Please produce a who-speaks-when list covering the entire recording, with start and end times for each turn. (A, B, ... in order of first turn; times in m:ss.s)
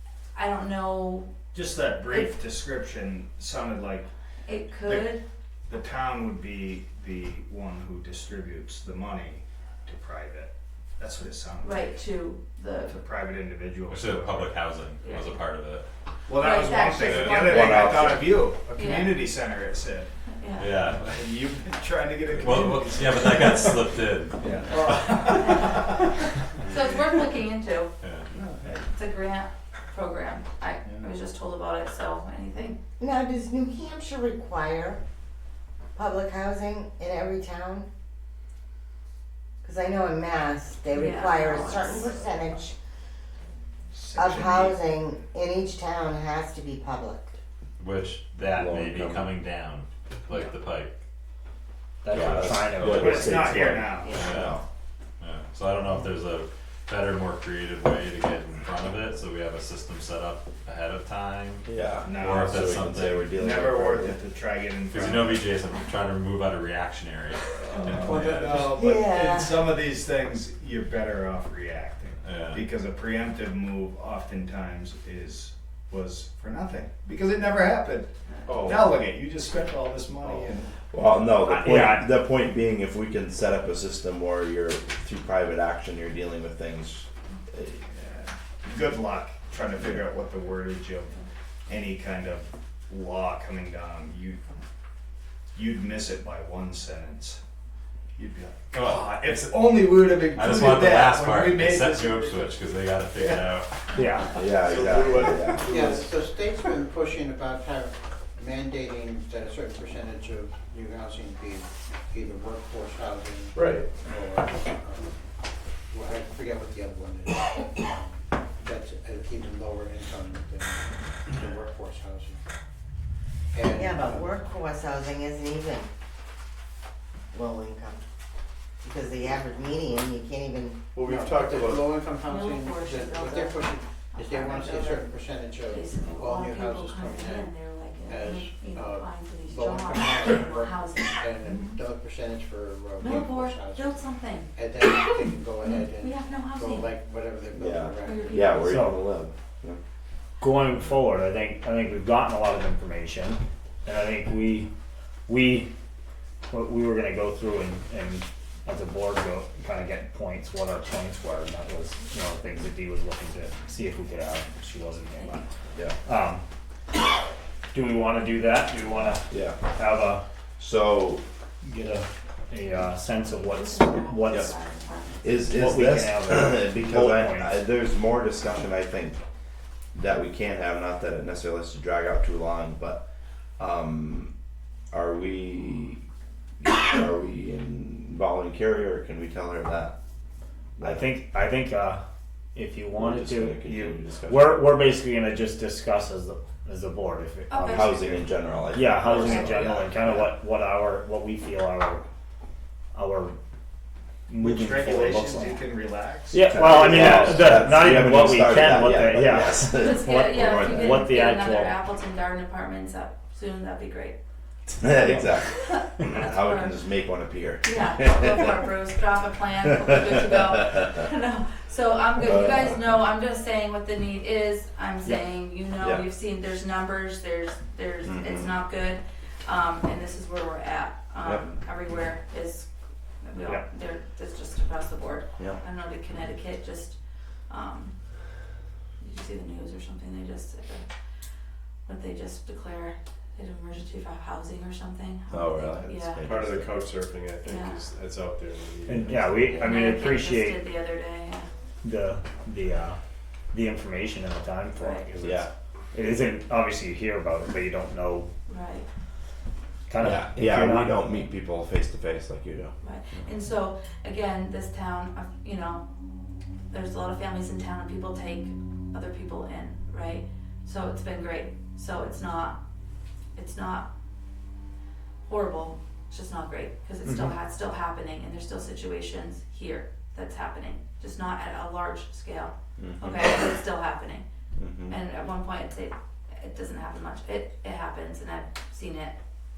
0:00.4-0:01.3 A
0:01.5-0:04.1 B
0:02.0-0:02.3 A
0:04.5-0:05.2 A
0:04.8-0:05.1 B
0:05.7-0:11.9 B
0:11.6-0:12.9 A
0:12.8-0:14.6 B
0:13.9-0:15.9 C
0:15.0-0:15.4 A
0:16.3-0:20.1 B
0:16.4-0:18.0 A
0:17.4-0:18.4 D
0:18.8-0:19.2 A
0:20.3-0:20.7 A
0:20.6-0:21.2 C
0:21.0-0:23.8 B
0:22.3-0:24.5 C
0:24.4-0:26.2 B
0:25.4-0:26.1 A
0:26.7-0:27.9 A
0:28.0-0:28.3 C
0:28.3-0:28.9 B
0:28.9-0:32.8 A
0:33.0-0:35.0 E
0:36.0-0:37.9 E
0:39.6-0:42.8 E
0:40.9-0:42.1 A
0:43.9-0:44.8 B
0:44.2-0:47.4 E
0:47.8-0:50.9 C
0:48.5-0:49.3 D
0:52.0-0:54.0 F
0:52.1-0:54.6 D
0:53.0-0:54.2 B
0:54.2-0:54.6 C
0:55.2-1:01.7 C
1:01.7-1:04.2 D
1:02.0-1:05.5 B
1:02.2-1:03.4 C
1:04.9-1:08.6 C
1:07.6-1:18.1 B
1:08.3-1:09.7 E
1:12.2-1:12.6 C
1:18.5-1:19.0 G
1:18.6-1:20.7 B
1:20.9-1:27.8 D
1:21.4-1:22.1 F
1:27.9-1:31.2 B
1:31.7-1:34.5 B
1:35.6-1:37.4 B
1:38.2-1:42.6 B
1:38.7-1:39.1 C
1:40.3-1:43.7 C
1:43.2-1:43.5 B
1:44.0-1:44.3 F
1:44.4-1:45.7 D
1:44.6-1:46.1 G
1:45.7-1:55.3 H
1:55.9-2:02.4 H
2:03.5-2:04.3 H
2:03.7-2:05.9 E
2:07.3-2:08.0 E
2:08.8-2:11.0 E
2:11.0-2:17.5 H
2:12.2-2:21.2 A
2:18.0-2:28.6 H
2:23.0-2:26.9 A
2:27.6-2:29.8 D
2:28.0-2:28.7 A
2:28.6-2:29.0 F
2:30.4-2:34.7 F
2:35.3-2:35.7 F
2:36.5-2:45.5 F
2:45.1-2:45.4 A
2:46.0-2:46.4 F
2:47.7-2:50.2 F
2:49.3-2:49.6 D
2:50.6-2:51.2 D
2:51.6-2:54.6 F
2:53.2-2:55.6 A
2:55.2-2:59.2 D
2:55.5-2:57.5 F
3:00.0-3:03.1 D
3:03.6-3:04.3 D
3:04.9-3:06.0 D
3:06.6-3:10.0 D
3:10.8-3:11.2 D
3:10.8-3:12.0 F
3:12.6-3:22.0 F
3:13.0-3:14.7 D
3:17.5-3:17.9 A
3:17.6-3:20.3 D
3:19.2-3:19.8 A
3:22.9-3:23.4 F
3:24.3-3:25.6 F
3:24.4-3:27.0 B
3:26.3-3:31.8 F
3:26.5-3:31.2 D
3:29.7-3:34.2 A
3:34.7-3:38.6 D
3:35.0-3:35.3 F
3:35.6-3:36.8 A
3:37.6-3:52.7 A
3:39.8-3:40.8 D
3:42.2-3:43.0 D
3:45.8-3:46.1 D
3:48.0-3:48.6 D
3:51.2-3:51.6 D
3:53.2-3:58.0 A
3:59.0-4:00.9 A
4:01.9-4:06.5 A
4:05.3-4:06.7 D
4:06.2-4:09.9 G
4:07.4-4:07.8 A
4:08.9-4:10.7 F
4:09.6-4:11.5 A
4:11.8-4:13.0 F
4:13.5-4:18.3 F
4:14.8-4:15.0 A
4:15.2-4:15.5 D
4:18.5-4:18.9 A
4:19.9-4:21.2 F
4:20.0-4:22.7 D
4:22.8-4:25.9 A
4:26.7-4:32.6 A
4:33.4-4:33.9 A
4:35.2-4:44.2 A
4:37.0-4:37.4 F
4:42.8-4:43.4 D
4:44.6-4:45.0 D
4:44.9-4:49.2 A